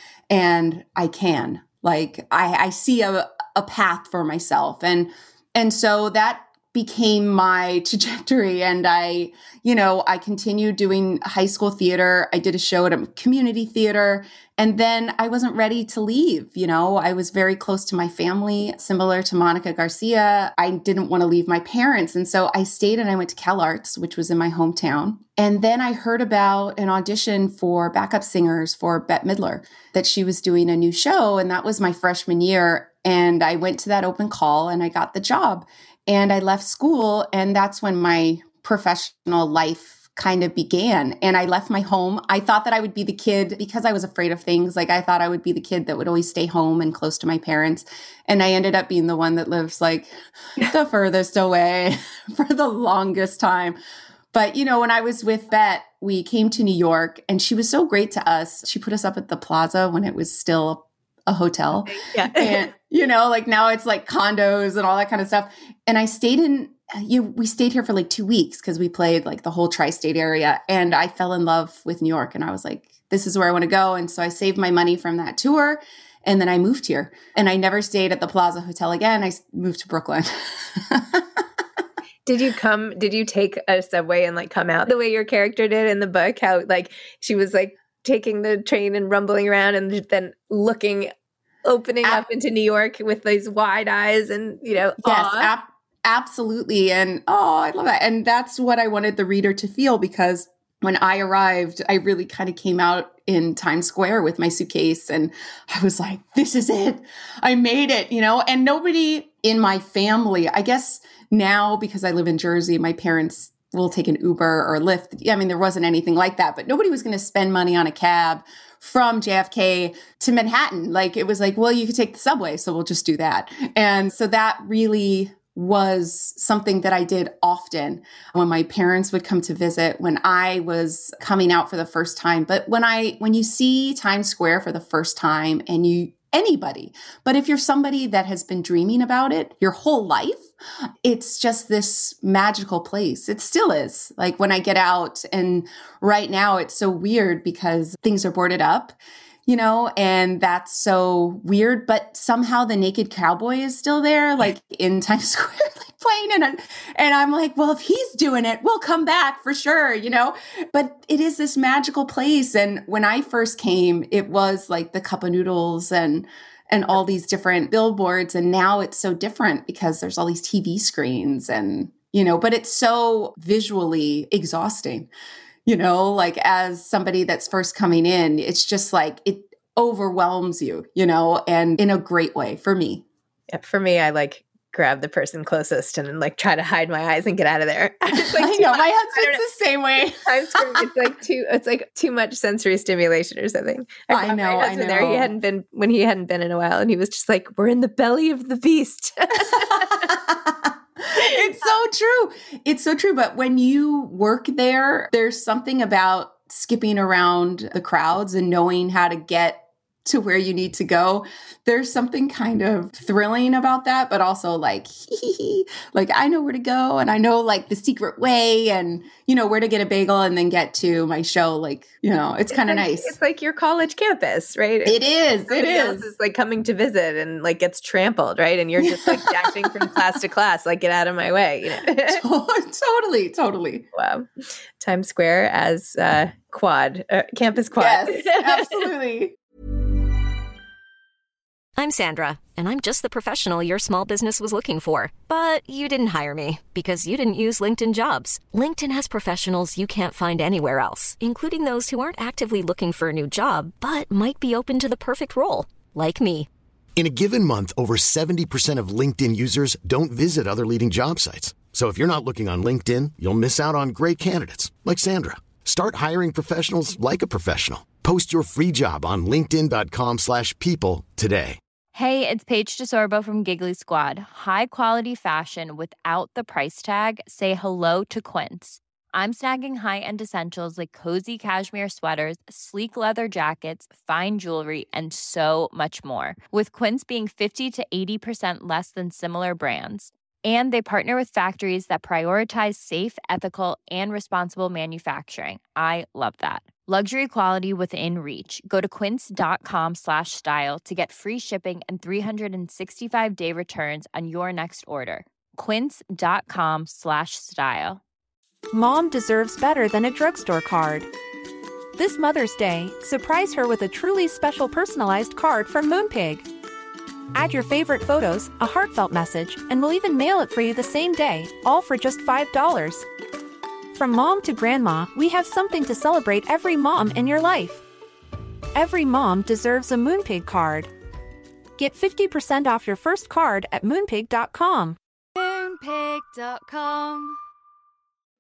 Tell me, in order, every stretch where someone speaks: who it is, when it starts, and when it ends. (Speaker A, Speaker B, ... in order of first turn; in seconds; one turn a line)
Speaker A: 0.3-50.1
Speaker A: 50.6-53.8
Speaker A: 54.3-81.4
Speaker B: 61.9-62.7
Speaker B: 82.2-91.1
Speaker B: 91.7-95.5
Speaker A: 95.0-140.5
Speaker A: 141.0-148.9
Speaker A: 149.5-175.1
Speaker A: 175.7-183.0
Speaker B: 183.5-189.4
Speaker A: 188.1-190.9
Speaker B: 190.0-200.1
Speaker A: 194.1-195.3
Speaker A: 199.5-223.1
Speaker B: 222.5-224.9
Speaker A: 224.8-226.1
Speaker B: 225.5-232.2
Speaker A: 228.8-229.8
Speaker A: 232.1-233.9
Speaker B: 233.9-234.3
Speaker B: 234.8-238.7
Speaker A: 237.8-239.3
Speaker C: 241.8-256.5
Speaker D: 257.0-271.6
Speaker E: 271.9-308.0
Speaker F: 308.7-311.1
Speaker F: 312.0-316.5
Speaker F: 317.3-323.1
Speaker F: 323.9-327.8
Speaker F: 328.7-330.9
Speaker F: 331.8-337.2